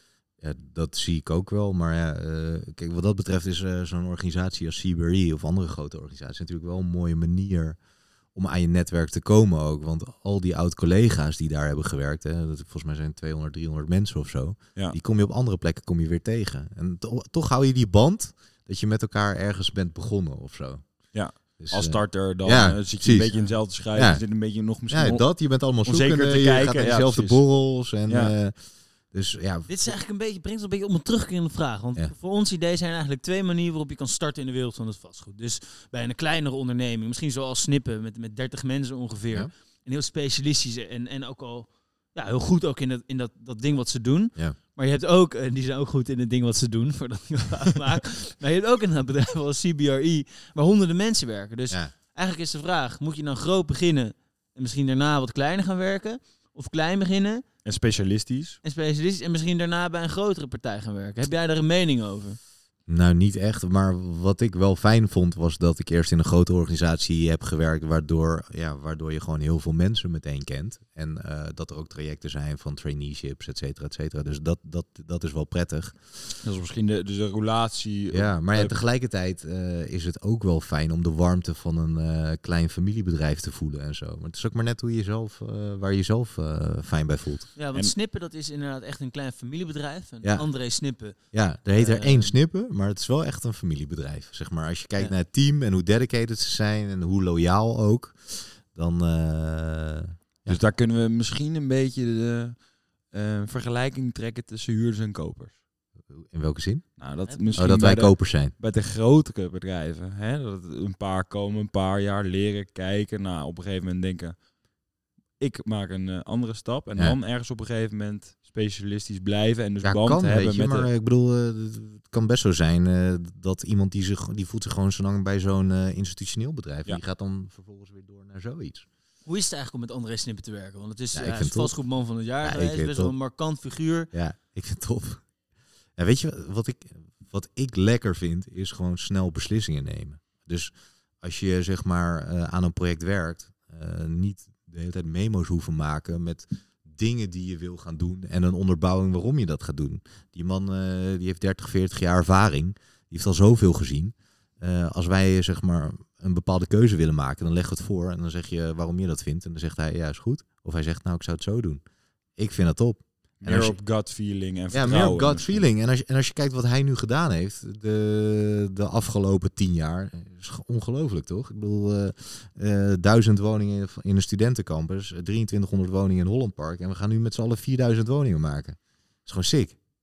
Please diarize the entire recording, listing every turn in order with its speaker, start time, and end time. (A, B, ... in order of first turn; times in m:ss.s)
0:00.4-0:30.0 A
0:21.1-0:28.3 B
0:23.3-0:23.6 C
0:29.7-0:57.4 C
0:57.6-0:58.6 B
0:58.6-1:02.4 C
1:02.9-1:16.1 A
1:16.4-1:18.8 B
1:18.1-1:27.5 A
1:27.6-1:32.4 C
1:30.2-1:30.5 A
1:31.1-1:40.6 A
1:40.5-1:45.6 B
1:46.1-1:48.5 A
1:47.0-1:54.5 B
1:47.2-1:47.7 C
1:55.4-2:00.9 B
1:59.8-2:08.9 A
2:09.3-2:14.1 C
2:11.2-2:11.8 A
2:12.4-2:13.2 A
2:14.1-2:15.3 A
2:16.0-2:41.8 A
2:42.4-2:43.8 A
2:43.4-2:45.6 B
2:44.7-2:59.8 A